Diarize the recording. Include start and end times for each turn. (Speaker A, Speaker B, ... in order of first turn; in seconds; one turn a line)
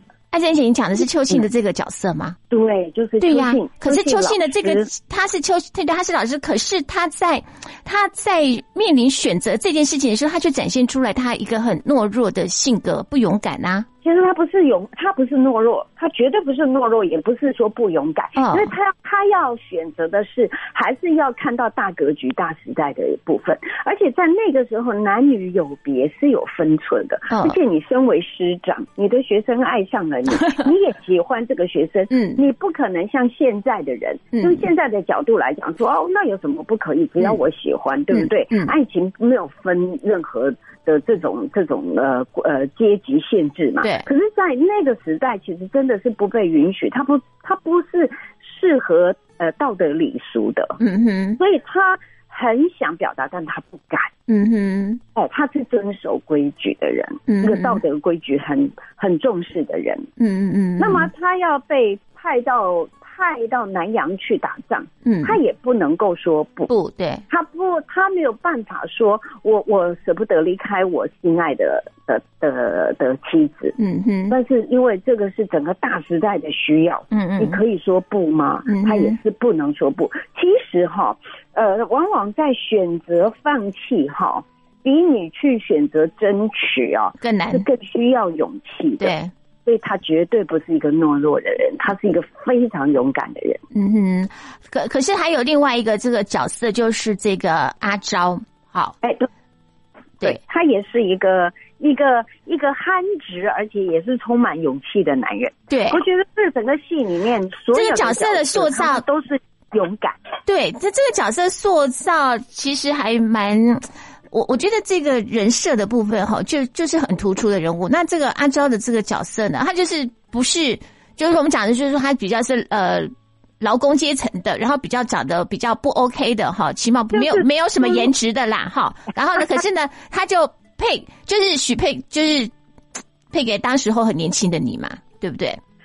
Speaker A: 0.3-2.4
Speaker B: 2.5-4.9
Speaker A: 3.2-13.9
Speaker B: 14.0-50.8
Speaker A: 18.4-18.7
Speaker A: 27.3-27.6
Speaker A: 32.1-32.4
Speaker A: 34.3-34.6
Speaker A: 38.1-38.7
Speaker A: 50.8-51.4
Speaker B: 51.4-54.1
Speaker A: 54.3-55.0
Speaker B: 55.1-60.1
Speaker A: 57.3-57.8
Speaker A: 60.2-61.1
Speaker B: 60.8-66.7
Speaker A: 65.0-65.4
Speaker A: 66.7-67.2
Speaker B: 67.3-73.8
Speaker A: 73.8-74.3
Speaker B: 74.3-89.1
Speaker A: 77.1-77.6
Speaker A: 78.7-79.2
Speaker A: 87.2-87.7
Speaker A: 89.0-89.3
Speaker B: 89.7-93.6
Speaker A: 93.7-99.0
Speaker B: 99.0-99.3
Speaker B: 100.2-110.2
Speaker A: 105.7-106.0
Speaker A: 107.7-109.0
Speaker A: 110.5-132.5
Speaker B: 127.1-128.1
Speaker A: 133.3-135.6